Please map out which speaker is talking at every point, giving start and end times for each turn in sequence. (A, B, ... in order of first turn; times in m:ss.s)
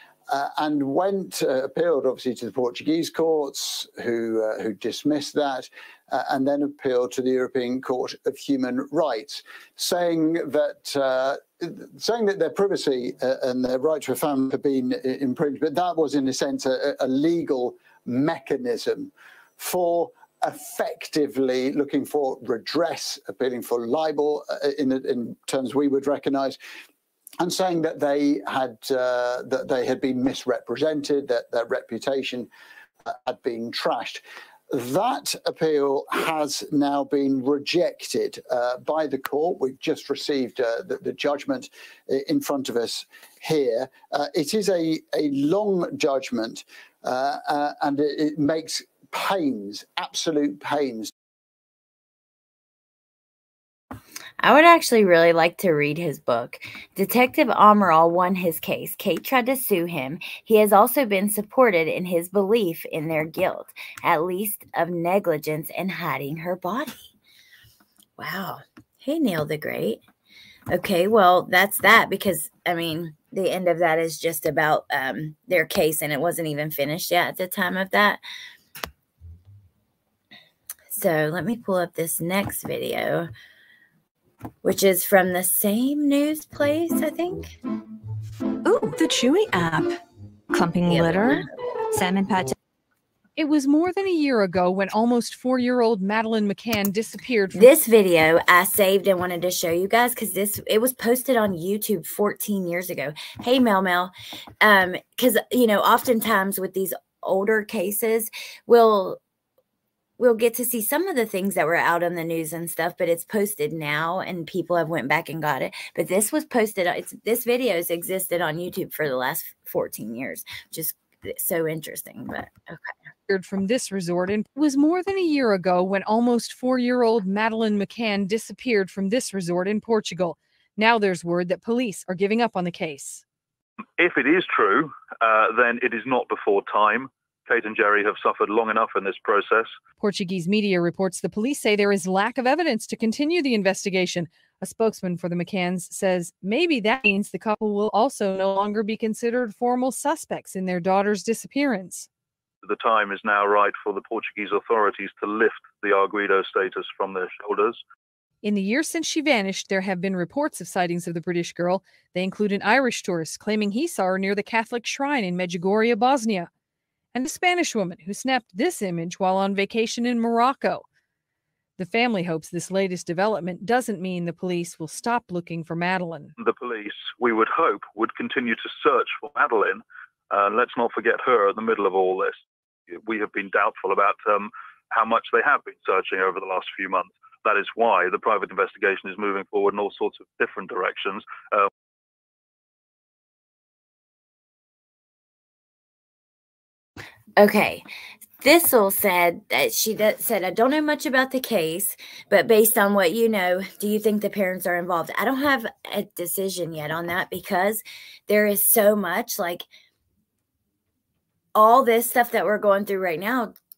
0:00.3-0:26.6 A
0:27.4-0:32.5 A
0:33.1-0:51.1 A
0:54.4-1:07.1 B
1:08.2-1:10.0 B
1:10.7-1:18.2 B
1:20.9-1:23.3 B
1:24.6-1:27.6 B
1:28.6-1:30.0 C
1:30.5-1:32.5 C
1:30.9-1:31.5 B
1:33.4-1:37.7 D
1:37.5-1:49.2 B
1:50.2-2:02.9 B
2:03.3-2:13.2 D
2:14.0-2:19.7 E
2:20.0-2:32.1 D
2:32.6-2:37.8 E
2:38.4-2:46.5 D
2:47.1-2:50.8 D
2:51.8-2:56.3 D
2:56.4-3:11.7 E
3:17.4-3:17.8 B
3:18.4-3:29.7 B
3:31.6-3:33.5 B